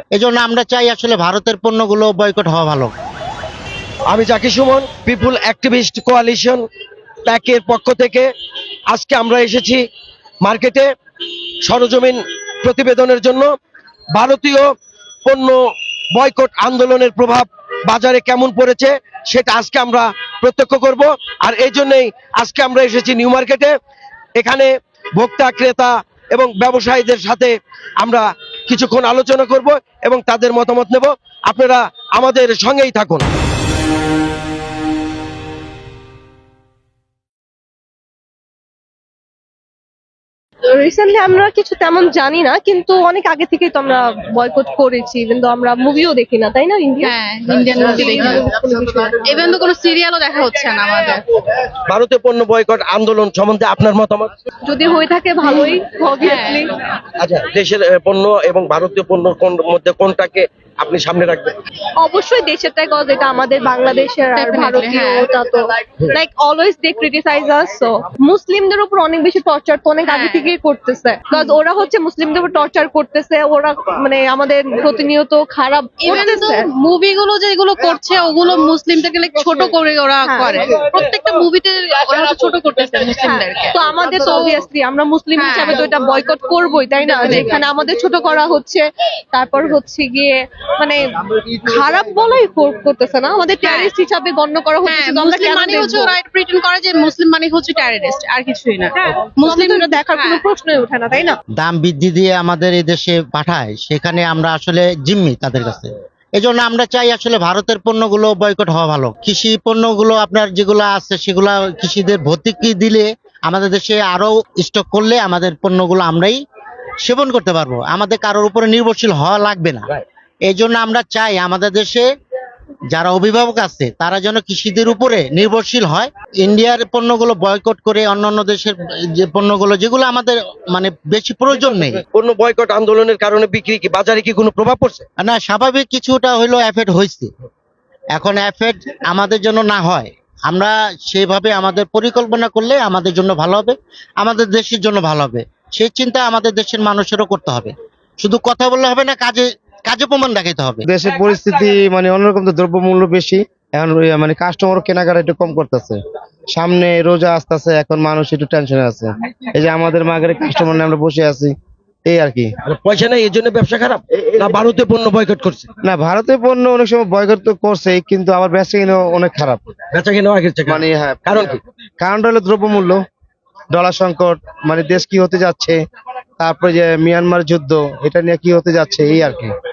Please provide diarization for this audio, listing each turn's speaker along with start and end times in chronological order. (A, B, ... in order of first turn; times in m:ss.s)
0:00.2-0:02.9 A
0:04.1-0:06.6 B
0:07.3-0:08.3 B
0:08.9-0:09.8 B
0:10.4-0:10.9 B
0:11.6-0:13.5 B
0:14.1-0:14.7 B
0:15.2-0:15.6 B
0:16.1-0:23.8 B
0:24.4-0:33.3 B
0:40.7-0:47.1 C
0:47.0-0:48.5 D
0:47.7-0:49.2 C
0:49.2-0:51.2 D
0:51.9-0:54.3 B
0:54.7-0:56.7 C
0:56.2-0:56.6 D
0:57.2-1:01.6 B
1:02.0-1:16.7 C
1:04.4-1:05.3 D
1:10.1-1:10.5 D
1:16.0-1:24.6 D
1:20.3-1:20.6 C
1:23.2-1:36.2 C
1:25.4-1:25.9 D
1:27.1-1:27.5 D
1:33.6-1:33.9 D
1:34.8-1:40.4 D
1:39.0-1:41.4 C
1:41.6-1:56.4 A
1:57.0-1:59.9 A
2:00.5-2:02.1 A
2:02.9-2:12.0 A
2:12.1-2:15.0 B
2:15.2-2:17.3 A
2:18.2-2:30.8 A
2:30.9-2:36.0 E
2:36.5-2:41.5 E
2:42.0-2:42.5 E
2:42.7-2:45.7 B
2:45.9-2:49.6 E
2:49.9-2:51.6 B
2:50.7-2:53.0 E
2:53.7-2:55.8 E
2:56.4-2:59.5 E